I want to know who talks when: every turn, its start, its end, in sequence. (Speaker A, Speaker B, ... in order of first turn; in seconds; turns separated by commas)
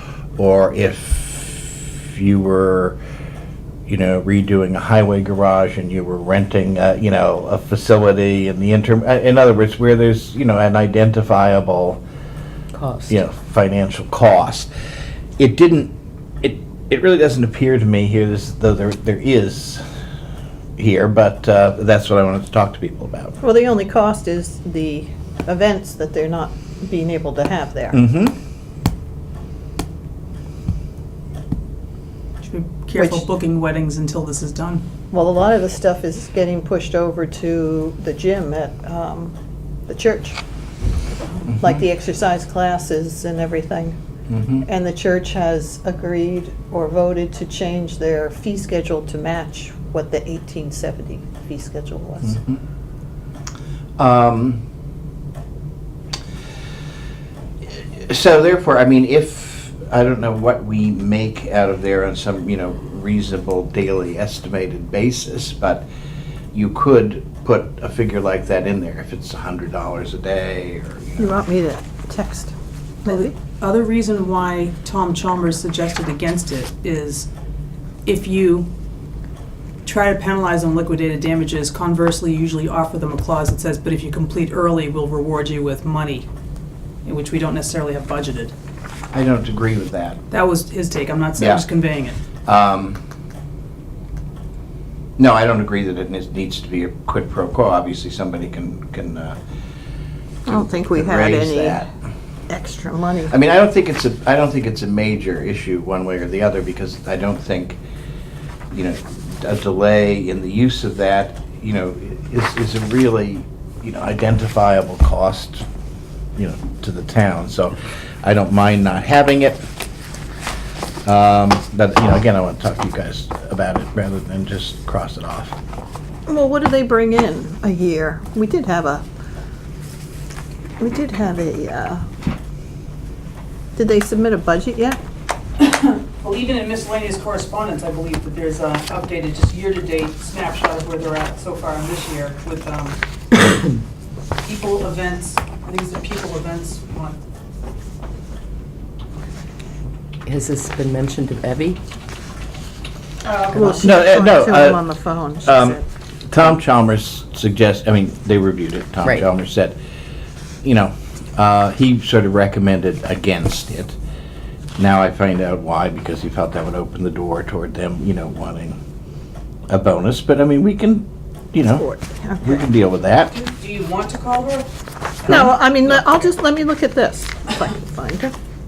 Speaker A: 0.4-3.0, Speaker A: 3.9-12.0, Speaker B: 12.7-13.2, Speaker A: 13.1-14.7, Speaker A: 15.4-19.8, Speaker A: 20.8-23.4, Speaker C: 23.4-28.0, Speaker A: 27.9-28.3, Speaker D: 32.4-34.8, Speaker C: 32.9-33.3, Speaker C: 35.1-39.3, Speaker C: 39.9-40.4, Speaker C: 41.6-44.0, Speaker A: 44.3-44.6, Speaker C: 44.6-52.4, Speaker A: 52.3-52.6, Speaker A: 54.0-54.6, Speaker A: 58.0-65.8, Speaker A: 66.5-71.4, Speaker C: 71.2-72.5, Speaker C: 73.0-73.3, Speaker D: 73.1-77.3, Speaker D: 78.0-78.7, Speaker D: 79.8-86.3, Speaker D: 87.0-88.5, Speaker A: 89.1-90.2, Speaker D: 90.3-92.2, Speaker A: 91.4-91.6, Speaker A: 92.4-93.0, Speaker A: 95.2-99.4, Speaker A: 100.5-101.9, Speaker C: 100.5-101.9, Speaker C: 102.5-103.3, Speaker A: 103.3-107.8, Speaker A: 108.7-115.6, Speaker A: 116.4-119.7, Speaker A: 121.0-125.5, Speaker C: 126.3-129.0, Speaker C: 130.8-132.0, Speaker C: 133.8-135.0, Speaker D: 135.6-143.0, Speaker D: 144.4-147.2, Speaker B: 150.2-151.8, Speaker D: 153.2-153.9, Speaker C: 153.5-155.8, Speaker A: 153.8-154.8, Speaker A: 155.4-159.8, Speaker A: 160.6-163.9, Speaker A: 164.8-168.8, Speaker A: 169.7-171.8, Speaker C: 171.6-172.7, Speaker A: 172.4-173.3, Speaker D: 173.3-174.7, Speaker D: 175.2-176.2, Speaker C: 175.3-178.3